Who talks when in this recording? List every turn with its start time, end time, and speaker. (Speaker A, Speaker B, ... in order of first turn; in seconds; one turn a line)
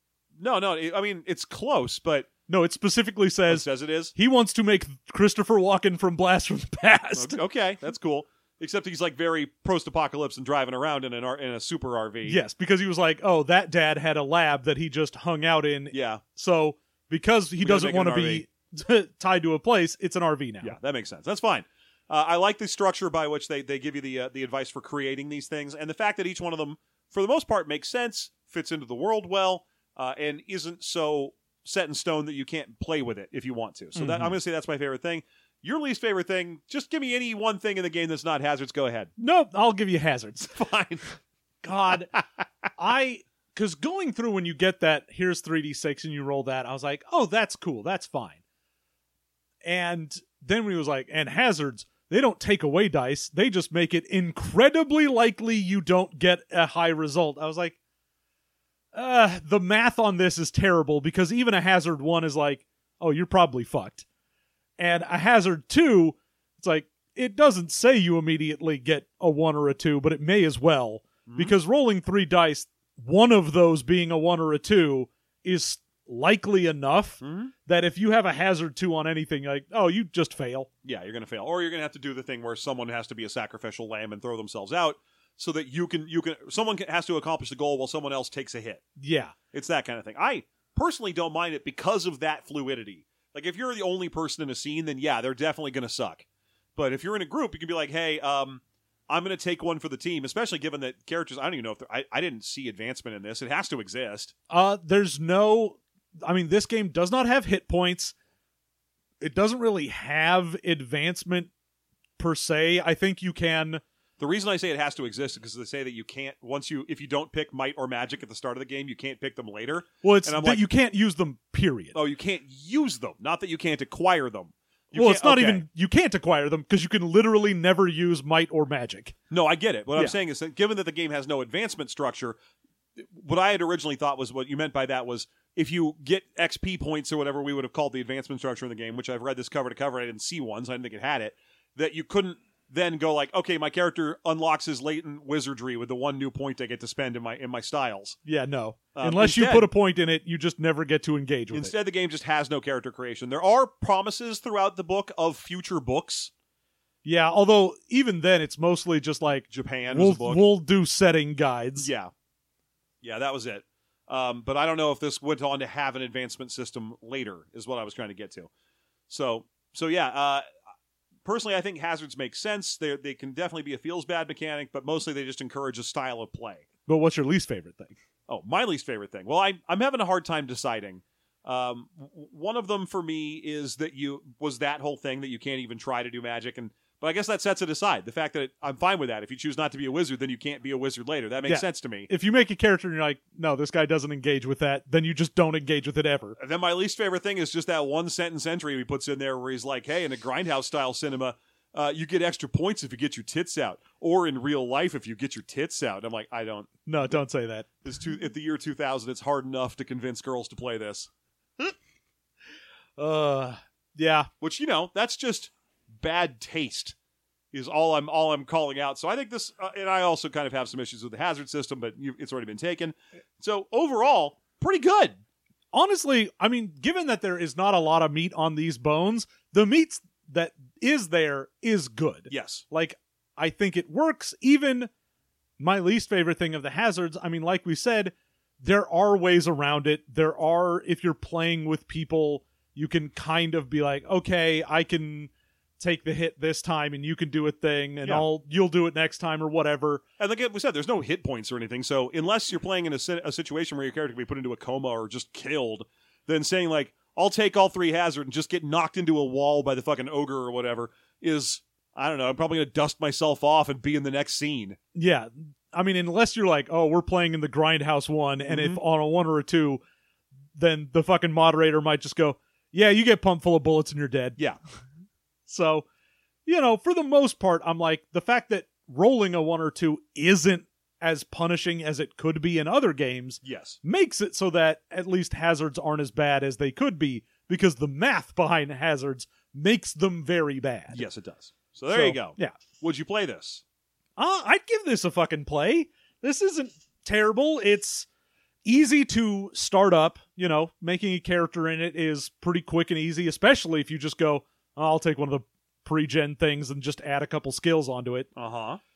Speaker A: 0.4-2.3
Speaker B: 2.5-7.4
Speaker A: 3.5-4.1
Speaker A: 7.2-12.4
Speaker B: 12.2-20.8
Speaker A: 15.9-16.2
Speaker A: 17.6-18.4
Speaker A: 20.6-39.1
Speaker B: 34.0-34.3
Speaker B: 39.2-40.5
Speaker A: 40.5-41.0
Speaker B: 41.6-42.1
Speaker B: 42.8-48.4
Speaker B: 49.6-57.8
Speaker B: 58.9-64.0
Speaker B: 64.8-80.7
Speaker A: 71.2-71.5
Speaker A: 77.2-77.5
Speaker A: 80.8-88.8
Speaker B: 89.0-89.3
Speaker A: 89.5-96.2
Speaker A: 96.8-104.3
Speaker B: 104.5-108.1
Speaker B: 109.2-111.5
Speaker B: 112.2-113.8
Speaker A: 114.2-120.7
Speaker B: 120.0-122.0
Speaker A: 121.9-125.7
Speaker B: 124.9-129.1
Speaker A: 129.3-132.3
Speaker A: 133.0-148.2
Speaker B: 148.2-151.7
Speaker A: 148.9-149.7
Speaker A: 151.5-156.3
Speaker B: 157.0-161.9
Speaker A: 159.5-160.4
Speaker A: 161.8-162.1
Speaker A: 163.0-168.5
Speaker A: 169.1-170.4
Speaker A: 171.2-176.7
Speaker B: 176.9-177.9
Speaker A: 178.3-192.1
Speaker B: 191.4-196.3
Speaker A: 196.4-206.7
Speaker B: 206.8-207.7
Speaker A: 207.8-211.1
Speaker B: 213.0-214.3
Speaker A: 214.4-216.9
Speaker A: 217.5-225.2
Speaker B: 225.7-234.9
Speaker A: 232.3-232.6
Speaker B: 235.6-250.0
Speaker A: 250.2-264.8
Speaker B: 264.9-269.8
Speaker A: 268.5-268.8
Speaker B: 270.6-274.4
Speaker B: 275.5-275.8
Speaker B: 276.4-291.0
Speaker A: 283.4-283.8
Speaker A: 290.9-293.6
Speaker B: 291.9-292.6
Speaker B: 294.2-298.1
Speaker B: 298.6-308.3
Speaker A: 308.4-308.8